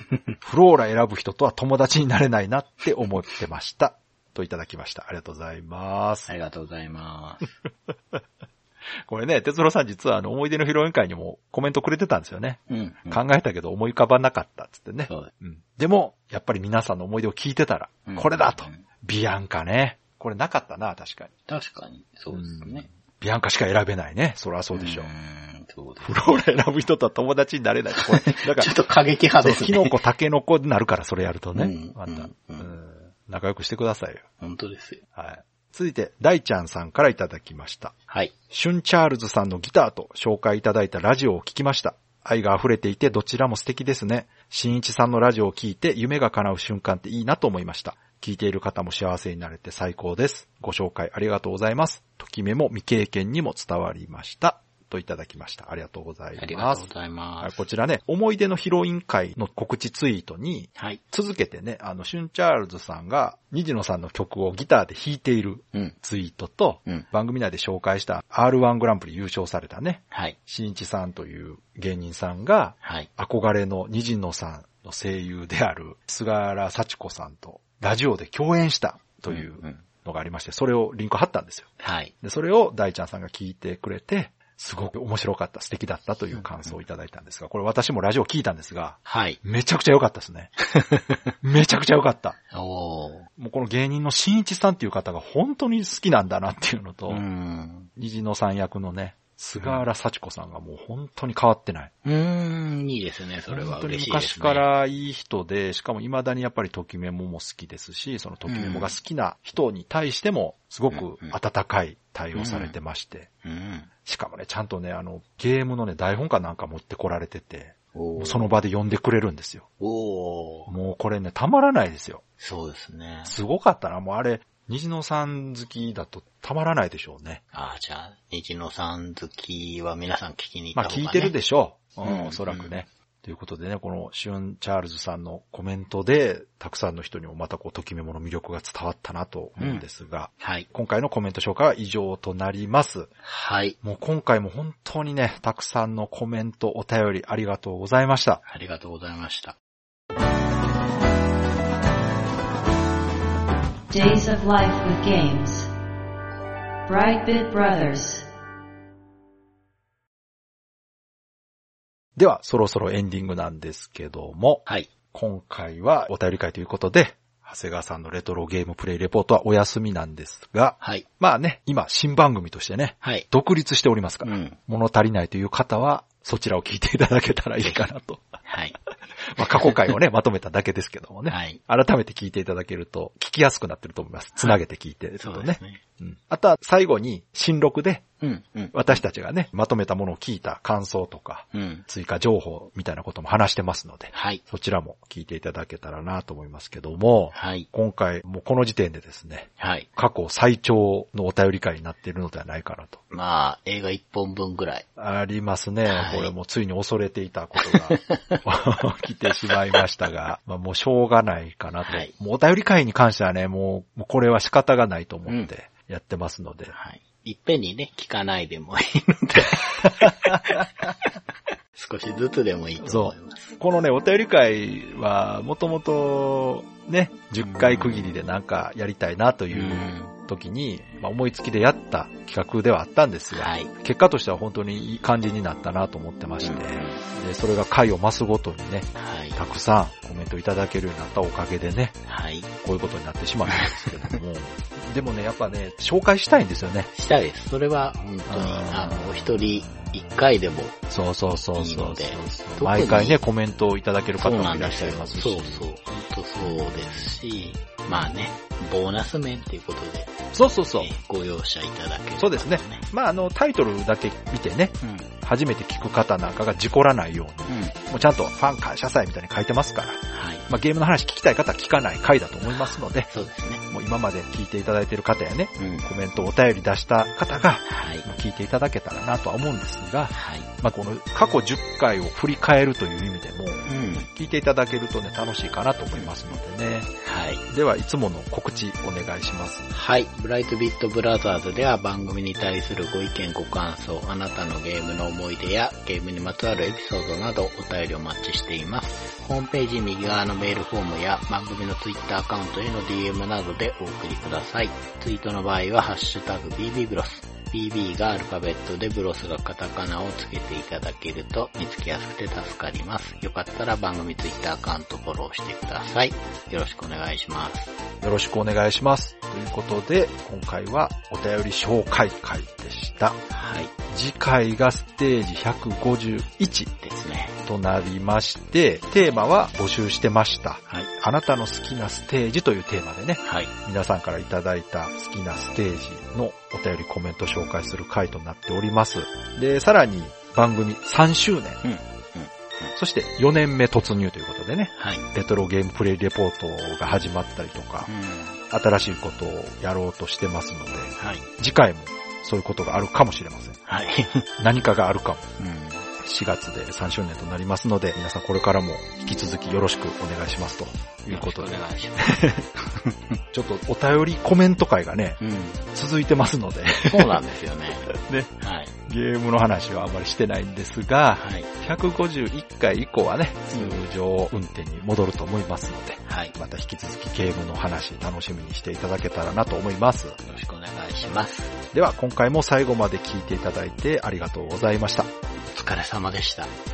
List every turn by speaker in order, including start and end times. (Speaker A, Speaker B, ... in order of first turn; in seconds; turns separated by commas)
Speaker A: 0.4-6.3, Speaker B: 6.3-7.5, Speaker A: 9.0-21.3, Speaker B: 12.7-13.2, Speaker B: 15.1-15.3, Speaker B: 18.1-18.8, Speaker B: 21.5-22.9, Speaker A: 22.3-25.1, Speaker B: 24.7-26.5, Speaker A: 26.0-28.8, Speaker B: 27.9-30.0, Speaker A: 29.4-34.2, Speaker B: 31.5-32.8, Speaker B: 34.4-35.0, Speaker A: 35.1-37.9, Speaker A: 38.5-56.9, Speaker B: 56.4-57.6, Speaker A: 57.4-81.7, Speaker B: 60.8-61.0, Speaker B: 72.8-73.1, Speaker B: 79.3-79.8, Speaker B: 81.8-82.1, Speaker A: 82.2-90.5, Speaker B: 86.3-86.8, Speaker B: 89.0-89.4, Speaker B: 90.7-91.2, Speaker A: 91.4-92.4, Speaker B: 92.5-93.3, Speaker A: 93.4-97.2, Speaker B: 97.1-97.9, Speaker A: 98.0-101.9, Speaker B: 102.0-104.7, Speaker A: 103.5-113.3, Speaker B: 108.5-108.9, Speaker B: 110.9-111.3, Speaker B: 112.3-112.8, Speaker B: 113.4-113.9, Speaker A: 114.0-119.6, Speaker B: 117.9-118.5, Speaker B: 119.8-120.7, Speaker A: 120.7-122.2, Speaker B: 122.4-123.4, Speaker A: 123.2-127.4, Speaker B: 127.5-131.3, Speaker A: 130.7-143.1, Speaker B: 132.0-132.8, Speaker B: 139.6-139.8, Speaker B: 140.4-140.7, Speaker B: 143.2-143.8, Speaker A: 143.8-148.4, Speaker B: 148.4-149.6, Speaker C: 153.9-155.7, Speaker C: 156.8-158.2, Speaker A: 162.2-178.4, Speaker B: 164.7-164.9, Speaker B: 170.8-171.1, Speaker B: 174.2-174.6, Speaker B: 178.4-178.8, Speaker A: 179.3-188.0, Speaker B: 179.4-179.9, Speaker B: 181.3-181.6, Speaker B: 185.2-185.8, Speaker B: 188.2-189.0, Speaker A: 188.7-203.0, Speaker B: 191.5-191.8, Speaker B: 194.1-194.4, Speaker B: 197.3-197.7, Speaker B: 199.6-199.9, Speaker B: 203.1-204.8, Speaker A: 205.0-216.7, Speaker B: 205.9-206.3, Speaker B: 207.6-208.4, Speaker B: 211.8-212.1, Speaker B: 216.7-220.9, Speaker A: 219.8-220.6, Speaker B: 221.7-223.6, Speaker A: 222.8-242.0, Speaker B: 227.4-228.2, Speaker B: 229.5-230.1, Speaker B: 233.3-233.7, Speaker B: 236.4-237.0, Speaker B: 239.0-239.4, Speaker B: 242.1-242.5, Speaker A: 242.6-246.9, Speaker B: 243.4-244.2, Speaker B: 246.9-250.8, Speaker A: 248.3-250.0, Speaker A: 250.9-255.7, Speaker B: 251.6-253.2, Speaker B: 254.2-260.2, Speaker A: 260.3-260.9, Speaker B: 260.8-262.9, Speaker A: 262.2-273.1, Speaker B: 264.8-265.1, Speaker B: 267.5-267.8, Speaker B: 270.1-270.4, Speaker B: 272.5-273.6, Speaker A: 273.7-286.9, Speaker B: 275.6-275.9, Speaker B: 277.6-278.1, Speaker B: 280.1-280.5, Speaker B: 283.6-284.1, Speaker B: 285.9-286.4, Speaker B: 287.0-287.4, Speaker A: 287.5-289.7, Speaker B: 289.7-317.7, Speaker A: 318.0-323.2, Speaker B: 323.3-323.7, Speaker A: 323.9-326.7, Speaker B: 326.8-327.4, Speaker A: 327.4-341.6, Speaker B: 333.2-333.5, Speaker B: 341.6-342.7, Speaker A: 342.7-347.9, Speaker B: 344.8-345.1, Speaker B: 347.8-348.4, Speaker A: 348.5-353.6, Speaker B: 351.0-351.3, Speaker B: 353.6-354.3, Speaker A: 354.4-355.3, Speaker B: 355.4-355.9, Speaker A: 356.0-362.5, Speaker B: 361.1-362.2, Speaker B: 362.7-363.0, Speaker A: 363.3-365.2, Speaker B: 365.2-365.6, Speaker A: 365.7-367.2, Speaker B: 366.8-368.7, Speaker A: 367.8-368.3, Speaker A: 368.9-380.2, Speaker B: 371.1-371.5, Speaker B: 373.5-373.8, Speaker B: 376.0-376.3, Speaker B: 380.2-381.6, Speaker A: 381.7-385.1, Speaker B: 385.5-386.5